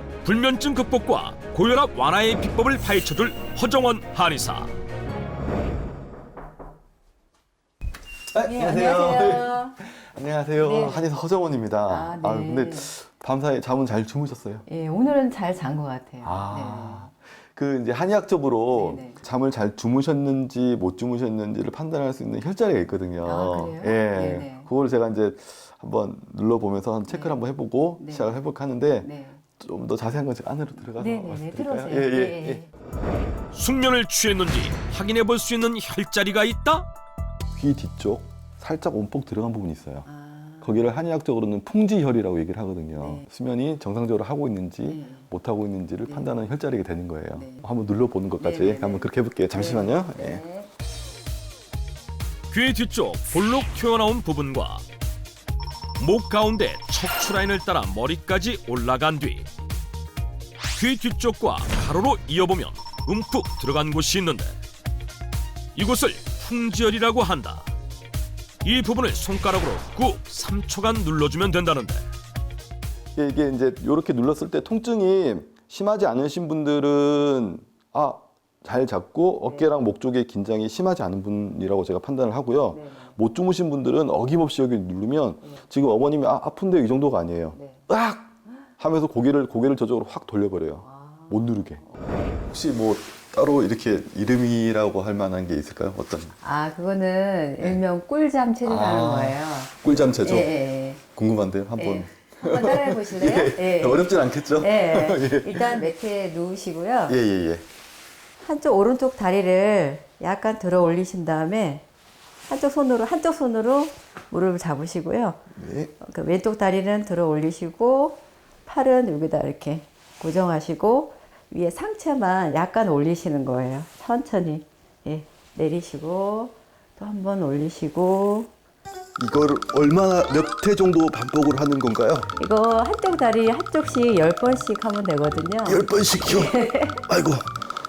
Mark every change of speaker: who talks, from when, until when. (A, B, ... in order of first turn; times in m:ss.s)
0:00.2-0:04.7 A
0:08.3-0:14.6 B
0:08.4-0:09.8 C
0:10.6-0:11.1 C
0:11.9-0:12.9 C
0:14.7-0:17.1 C
0:16.2-0:32.6 B
0:18.7-0:19.2 C
0:23.2-0:24.7 C
0:27.1-0:27.4 C
0:28.0-0:28.4 C
0:29.0-0:29.4 C
0:31.0-0:32.7 C
0:33.5-0:36.9 A
0:37.6-0:40.1 B
0:40.0-0:40.8 C
0:40.6-0:50.4 B
0:43.0-0:43.3 C
0:44.8-0:45.3 C
0:46.1-0:46.4 C
0:47.4-0:47.7 C
0:48.4-0:50.7 C
0:52.5-0:54.8 A
0:56.0-0:59.5 A
1:00.8-1:04.6 A
1:05.8-1:07.7 A
1:08.6-1:12.0 A
1:13.2-1:31.8 B
1:19.4-1:19.7 C
1:22.7-1:23.2 C
1:27.6-1:27.8 C
1:30.8-1:31.3 C
1:32.4-1:36.4 B
1:36.4-1:41.0 C
1:38.6-1:45.8 B
1:41.8-1:47.2 C
1:47.1-1:47.6 B
1:48.4-1:51.8 C
1:52.5-1:55.4 C
1:55.5-1:55.9 B
1:56.0-2:08.5 C
2:09.2-2:12.3 B
2:12.4-2:17.0 C
2:15.6-2:17.6 B